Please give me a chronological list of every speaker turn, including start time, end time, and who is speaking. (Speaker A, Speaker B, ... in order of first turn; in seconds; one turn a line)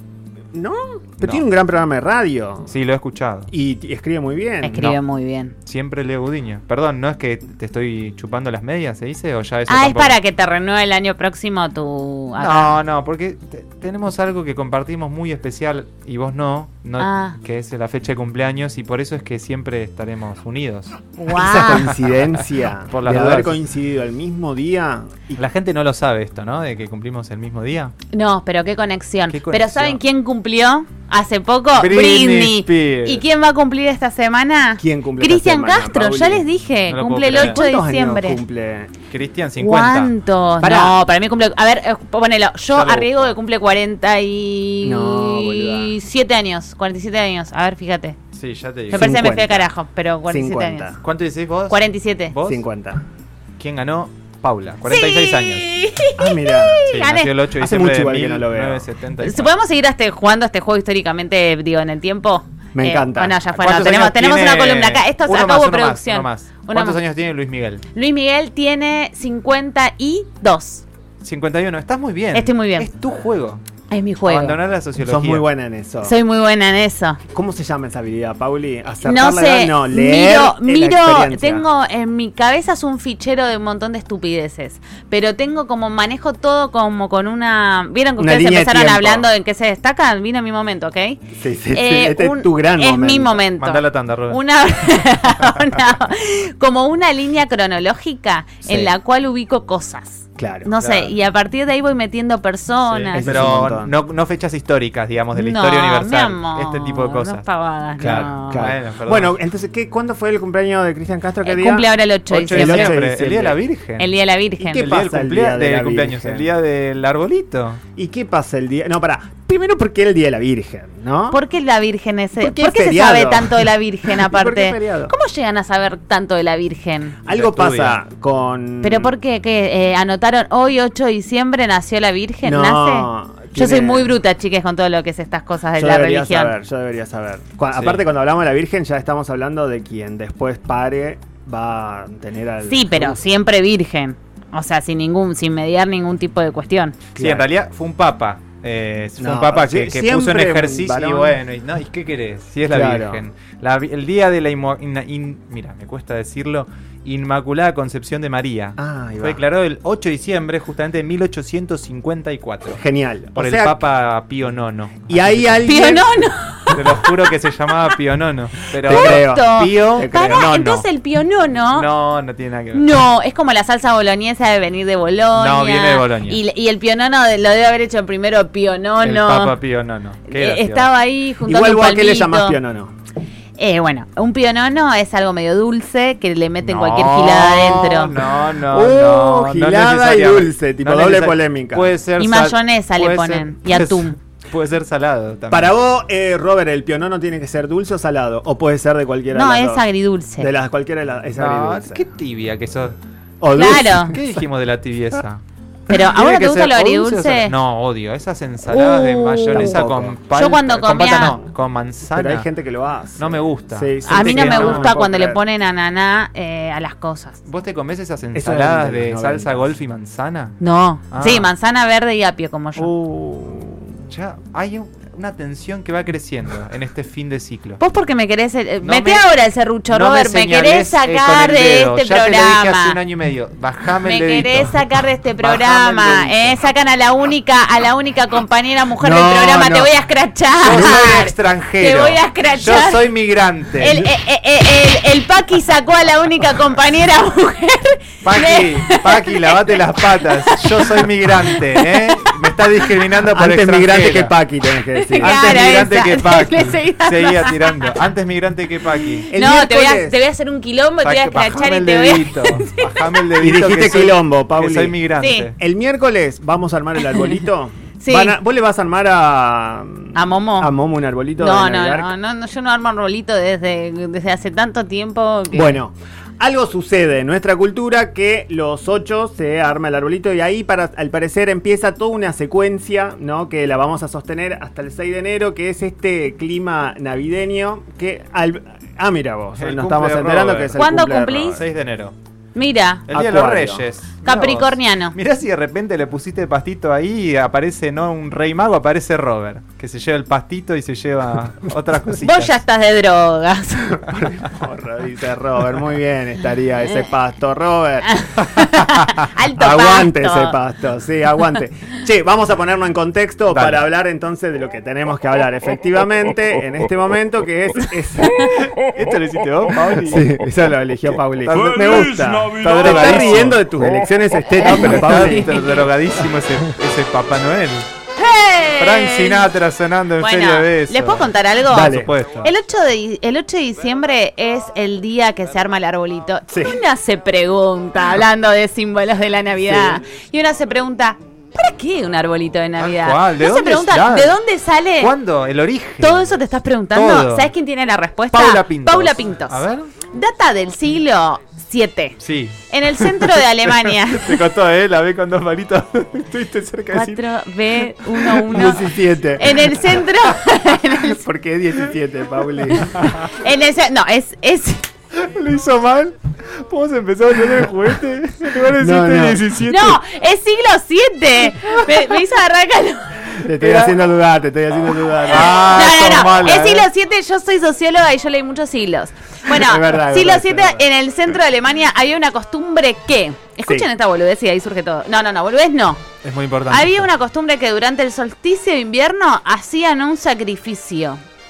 Speaker A: 0.5-2.7
Speaker B: 2.7-3.5
Speaker A: 3.5-5.0
Speaker C: 4.6-5.5
Speaker B: 5.6-10.2
Speaker C: 9.7-12.8
Speaker B: 12.4-20.9
Speaker C: 17.0-17.4
Speaker C: 21.2-21.9
Speaker A: 21.3-25.4
Speaker B: 22.9-23.6
Speaker B: 25.4-27.9
Speaker C: 28.1-38.4
Speaker B: 29.3-30.0
Speaker B: 31.7-33.2
Speaker A: 34.8-36.5
Speaker B: 36.9-37.6
Speaker A: 37.3-38.9
Speaker B: 39.1-40.9
Speaker C: 39.6-48.2
Speaker B: 42.7-43.3
Speaker A: 44.8-45.9
Speaker B: 48.3-49.2
Speaker C: 48.9-50.9
Speaker A: 48.9-49.7
Speaker A: 50.3-51.0
Speaker B: 51.0-52.6
Speaker C: 51.7-52.3
Speaker A: 52.4-53.0
Speaker B: 53.6-55.7
Speaker C: 54.9-57.3
Speaker A: 56.1-56.8
Speaker B: 56.8-59.5
Speaker A: 57.5-58.9
Speaker C: 59.2-67.0
Speaker A: 62.7-63.4
Speaker B: 63.5-67.8
Speaker C: 67.9-70.8
Speaker B: 71.2-73.6
Speaker C: 72.3-72.9
Speaker C: 73.9-74.6
Speaker B: 74.2-75.4
Speaker A: 75.0-76.2
Speaker C: 76.0-77.2
Speaker A: 77.3-81.7
Speaker C: 79.0-91.2
Speaker A: 88.2-89.3
Speaker A: 91.4-93.4
Speaker C: 91.7-103.4
Speaker B: 93.6-94.4
Speaker A: 98.7-98.9
Speaker A: 100.4-100.8
Speaker B: 100.8-101.1
Speaker B: 102.9-107.4
Speaker A: 103.1-103.9
Speaker C: 105.3-108.7
Speaker B: 108.0-109.3
Speaker A: 108.0-111.8
Speaker C: 111.4-113.0
Speaker B: 112.3-114.1
Speaker A: 112.4-113.6
Speaker C: 114.0-114.9
Speaker A: 114.6-116.5
Speaker B: 114.7-117.8
Speaker A: 118.0-121.4
Speaker C: 121.3-127.2
Speaker A: 122.4-125.1
Speaker A: 127.2-129.2
Speaker B: 127.3-128.0
Speaker C: 128.8-136.5
Speaker A: 132.4-134.1
Speaker A: 135.8-143.2
Speaker B: 137.7-138.0
Speaker C: 142.7-147.0
Speaker B: 147.1-162.8
Speaker A: 147.2-147.5
Speaker A: 149.2-151.4
Speaker A: 152.7-153.2
Speaker A: 158.8-159.4
Speaker A: 162.7-163.8
Speaker B: 163.3-165.6
Speaker A: 165.1-166.1
Speaker C: 165.6-167.3
Speaker B: 166.7-170.8
Speaker A: 168.8-170.5
Speaker C: 168.8-171.9
Speaker B: 171.7-172.8
Speaker C: 172.7-179.6
Speaker B: 175.3-176.4
Speaker B: 179.0-180.9
Speaker C: 180.3-182.6
Speaker A: 181.4-182.9
Speaker C: 183.6-188.2
Speaker B: 186.6-195.7
Speaker A: 188.7-191.9
Speaker C: 192.2-194.2
Speaker A: 195.5-199.8
Speaker C: 199.3-200.5
Speaker A: 200.4-202.0
Speaker B: 201.3-203.0
Speaker A: 203.4-204.2
Speaker C: 203.5-204.2
Speaker B: 203.6-212.4
Speaker C: 205.9-207.6
Speaker C: 208.6-211.4
Speaker A: 209.5-210.2
Speaker A: 212.1-215.4
Speaker B: 213.2-214.9
Speaker C: 214.1-217.4
Speaker B: 217.4-220.6
Speaker A: 218.3-219.7
Speaker C: 220.6-222.9
Speaker B: 221.1-221.5
Speaker A: 222.8-224.0
Speaker B: 224.1-227.8
Speaker C: 227.8-233.0
Speaker B: 228.8-229.2
Speaker B: 229.9-234.8
Speaker C: 234.0-243.1
Speaker B: 235.4-236.6
Speaker A: 239.0-239.9
Speaker B: 240.6-244.0
Speaker A: 240.7-241.0
Speaker C: 243.8-252.9
Speaker A: 243.8-244.1
Speaker B: 248.2-254.3
Speaker A: 253.3-255.4
Speaker C: 255.0-258.0
Speaker B: 255.2-259.3
Speaker C: 259.0-263.2
Speaker A: 259.3-260.2
Speaker B: 261.0-265.5
Speaker A: 263.4-265.0
Speaker C: 265.2-265.5
Speaker A: 265.6-272.1
Speaker C: 268.0-268.4
Speaker C: 270.1-270.7
Speaker C: 271.4-275.8
Speaker A: 275.5-291.6
Speaker B: 289.6-290.9
Speaker C: 290.8-291.6
Speaker B: 291.5-292.1
Speaker C: 292.5-293.1
Speaker B: 293.1-302.6
Speaker A: 293.1-293.9
Speaker C: 294.2-295.1
Speaker C: 302.1-304.2
Speaker A: 304.1-308.2
Speaker C: 308.1-310.6
Speaker A: 309.5-318.5
Speaker B: 313.5-313.9
Speaker B: 318.6-320.3
Speaker A: 320.0-325.6
Speaker B: 321.4-323.7
Speaker B: 324.7-327.9
Speaker C: 324.7-325.9
Speaker C: 328.2-329.5
Speaker B: 328.8-332.5
Speaker C: 330.2-345.1
Speaker A: 331.7-332.1
Speaker A: 336.5-336.8
Speaker A: 339.6-340.0
Speaker B: 342.8-344.4
Speaker B: 345.0-346.3
Speaker C: 346.0-352.2
Speaker B: 346.9-347.5
Speaker B: 348.3-349.9
Speaker B: 352.2-357.2
Speaker C: 352.7-354.4
Speaker C: 356.9-361.2
Speaker B: 358.1-358.7
Speaker A: 358.5-359.7
Speaker A: 361.1-363.1
Speaker C: 362.7-364.8
Speaker B: 362.9-363.3
Speaker B: 365.1-370.0
Speaker A: 368.7-369.4
Speaker C: 369.6-373.4
Speaker A: 373.4-375.9
Speaker B: 373.5-374.0
Speaker B: 375.2-376.9
Speaker C: 375.3-386.1
Speaker A: 379.5-380.8
Speaker B: 386.2-387.1
Speaker C: 386.7-391.2